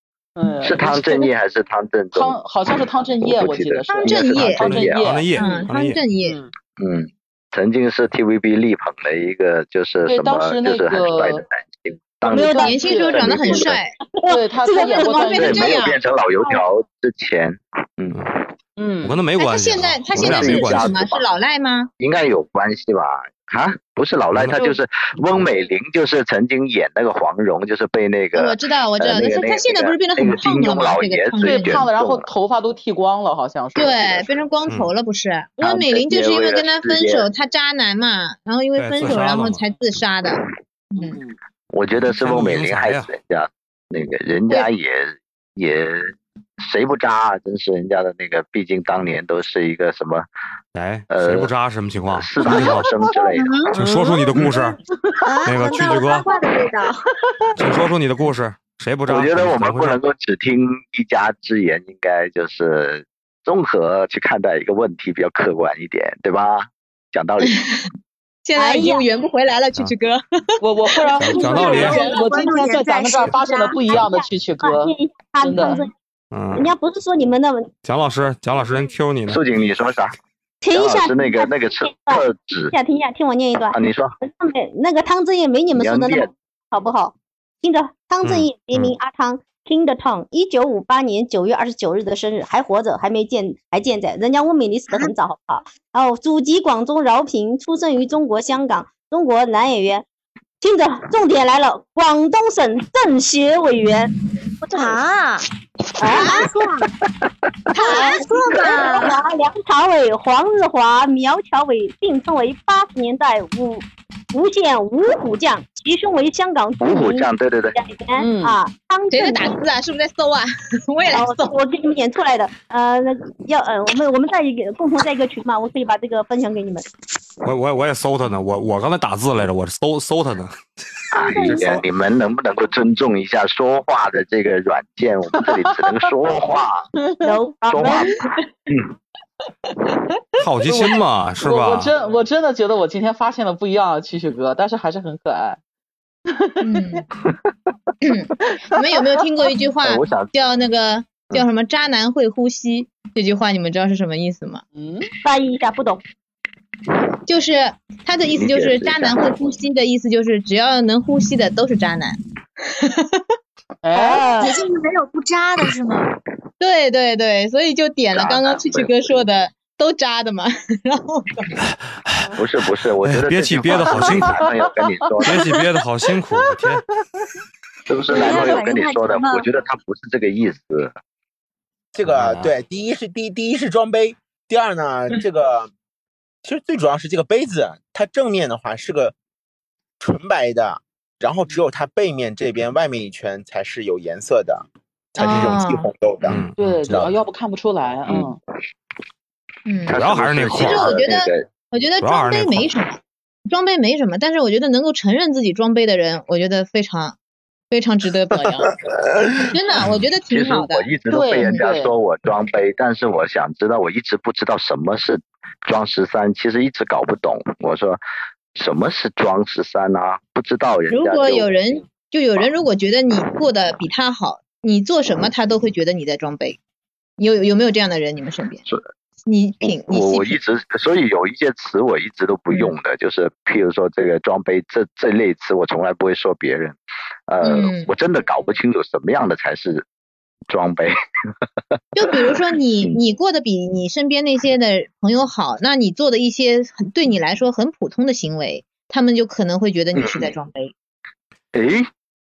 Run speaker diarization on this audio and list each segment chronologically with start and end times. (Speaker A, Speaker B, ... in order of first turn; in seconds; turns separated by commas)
Speaker A: 0.4-1.3, Speaker B: 0.6-5.0, Speaker A: 2.1-5.7, Speaker C: 3.9-4.7, Speaker D: 4.4-6.0, Speaker C: 5.3-6.4, Speaker A: 6.2-6.5, Speaker B: 6.8-13.8, Speaker A: 10.1-11.4, Speaker E: 12.3-12.9, Speaker A: 12.3-13.4, Speaker C: 12.6-13.9, Speaker E: 14.2-15.8, Speaker A: 14.3-15.8, Speaker C: 14.8-16.0, Speaker B: 15.3-18.3, Speaker A: 18.8-19.2, Speaker D: 19.0-20.9, Speaker C: 19.4-21.9, Speaker B: 20.1-21.3, Speaker B: 22.0-32.3, Speaker C: 28.3-31.9, Speaker A: 31.4-34.3, Speaker C: 33.8-40.4, Speaker B: 35.6-37.3, Speaker D: 38.8-39.6, Speaker A: 41.0-41.4, Speaker B: 41.7-50.3, Speaker D: 41.9-43.1, Speaker D: 50.8-52.9, Speaker B: 51.1-51.5, Speaker B: 52.1-53.6, Speaker F: 52.6-54.5, Speaker D: 53.7-54.8, Speaker F: 55.2-57.0, Speaker D: 55.5-56.3, Speaker D: 57.6-60.0, Speaker B: 59.1-67.6, Speaker C: 67.5-67.8, Speaker C: 68.5-70.2, Speaker E: 68.6-69.0, Speaker A: 70.6-75.8, Speaker C: 71.1-72.5, Speaker D: 71.2-72.0, Speaker F: 71.9-73.8, Speaker E: 73.9-75.9, Speaker D: 76.3-76.7, Speaker E: 76.5-77.7, Speaker D: 77.8-79.4, Speaker B: 79.3-80.2, Speaker E: 80.6-100.0, Speaker B: 80.7-82.7, Speaker B: 83.7-84.2, Speaker B: 85.7-86.3, Speaker D: 88.2-89.0, Speaker E: 100.6-105.0, Speaker F: 104.7-105.5, Speaker E: 106.0-106.9, Speaker F: 106.0-106.8, Speaker F: 107.7-109.2, Speaker E: 107.8-119.6, Speaker B: 116.8-117.8, Speaker A: 118.2-118.6, Speaker C: 119.1-121.5, Speaker E: 121.1-126.9, Speaker D: 127.4-130.6, Speaker B: 131.1-136.9, Speaker E: 131.5-131.8, Speaker A: 135.4-136.0, Speaker A: 137.0-138.0, Speaker E: 137.2-138.2, Speaker B: 137.7-138.1, Speaker D: 140.4-141.9, Speaker A: 140.7-145.6, Speaker A: 146.3-147.0, Speaker C: 146.6-147.1, Speaker C: 148.0-154.6, Speaker B: 149.8-150.3, Speaker A: 154.8-155.1, Speaker E: 155.2-156.0, Speaker C: 157.3-162.2, Speaker B: 158.3-159.3, Speaker C: 162.8-163.2, Speaker A: 163.8-164.4, Speaker E: 163.9-164.6, Speaker F: 164.4-166.1, Speaker C: 166.6-171.6, Speaker B: 168.1-168.9, Speaker D: 172.0-172.3, Speaker B: 172.4-175.5, Speaker D: 173.0-174.5, Speaker A: 173.9-175.6, Speaker D: 175.2-176.8, Speaker A: 176.4-176.7, Speaker B: 177.9-181.0, Speaker F: 178.1-179.5, Speaker G: 181.9-185.7, Speaker D: 182.1-182.6, Speaker G: 186.4-189.2, Speaker G: 190.0-197.1, Speaker C: 195.2-195.9, Speaker D: 196.3-197.0, Speaker A: 196.6-198.4, Speaker C: 199.7-200.0, Speaker B: 199.9-201.5, Speaker D: 199.9-201.0, Speaker C: 200.5-207.2, Speaker D: 202.0-202.7, Speaker C: 207.7-208.7, Speaker C: 209.5-210.9, Speaker D: 209.8-210.1, Speaker B: 209.8-218.0, Speaker A: 211.1-211.9, Speaker B: 218.6-221.5, Speaker C: 220.9-226.6, Speaker C: 227.2-228.6, Speaker C: 229.3-230.4, Speaker B: 229.6-239.8, Speaker C: 237.4-237.9, Speaker B: 240.5-240.9, Speaker C: 241.9-250.7, Speaker B: 242.3-243.0, Speaker B: 250.0-250.3, Speaker B: 251.5-251.9